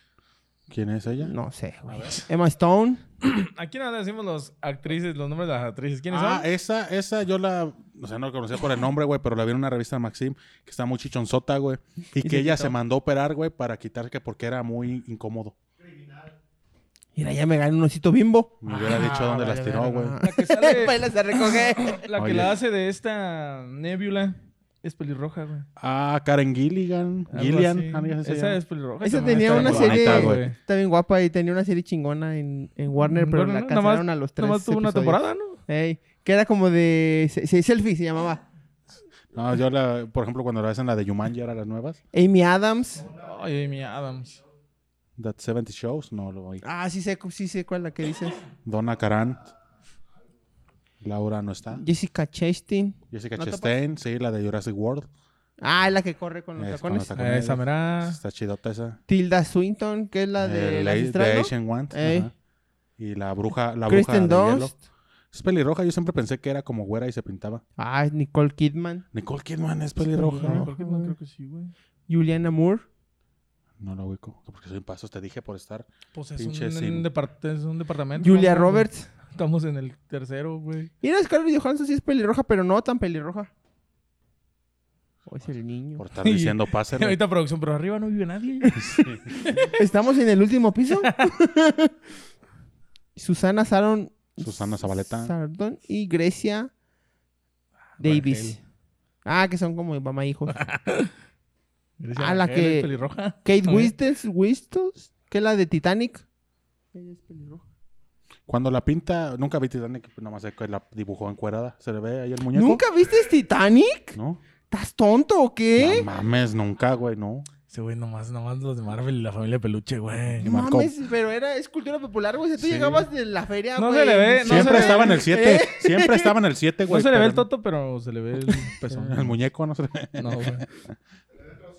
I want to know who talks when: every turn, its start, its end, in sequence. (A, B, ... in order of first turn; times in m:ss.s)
0:00.7-0:01.3 A
0:01.2-0:03.0 B
0:01.9-0:02.2 A
0:03.2-0:06.5 C
0:06.1-0:15.6 A
0:12.2-0:12.8 B
0:17.2-0:22.0 B
0:18.6-0:20.2 A
0:20.2-0:25.7 C
0:22.2-0:22.6 A
0:25.8-0:28.6 A
0:27.3-0:30.6 C
0:29.0-0:38.4 B
0:29.3-0:30.5 A
0:33.0-0:35.6 C
0:39.3-0:42.0 A
0:42.1-0:43.1 B
0:43.1-0:44.4 C
0:45.2-0:46.6 A
0:46.6-0:48.4 B
0:48.6-0:49.5 A
0:51.0-0:51.8 A
0:51.7-0:53.7 B
0:53.1-0:55.1 A
0:55.6-0:57.1 B
0:56.6-0:59.0 A
0:57.2-0:58.2 C
0:59.1-1:02.3 B
1:00.4-1:02.3 A
1:03.0-1:04.7 A
1:03.9-1:04.8 B
1:05.3-1:07.6 A
1:07.8-1:09.1 B
1:09.1-1:10.7 A
1:10.1-1:11.2 B
1:10.4-1:11.7 C
1:12.1-1:12.9 B
1:13.8-1:17.1 A
1:16.1-1:20.9 C
1:18.2-1:19.1 B
1:21.0-1:23.5 B
1:25.3-1:26.1 B
1:26.0-1:27.2 A
1:26.2-1:28.8 C
1:28.8-1:29.4 A
1:29.6-1:32.0 B
1:33.2-1:36.7 B
1:34.4-1:35.3 A
1:38.0-1:38.6 C
1:38.0-1:38.6 B
1:39.2-1:40.6 B
1:40.5-1:41.1 C
1:42.0-1:43.9 C
1:42.2-1:42.9 B
1:43.4-1:46.2 B
1:46.9-1:47.7 B
1:48.5-1:52.8 A
1:52.5-1:54.2 B
1:54.2-1:54.4 A
1:54.7-1:56.1 B
1:55.8-1:57.5 A
1:57.7-2:00.5 C
2:00.4-2:00.9 A
2:00.4-2:06.4 B
2:02.6-2:03.1 A
2:03.8-2:05.2 C
2:04.4-2:07.5 A
2:06.9-2:09.4 C
2:08.4-2:11.0 A
2:10.2-2:10.6 C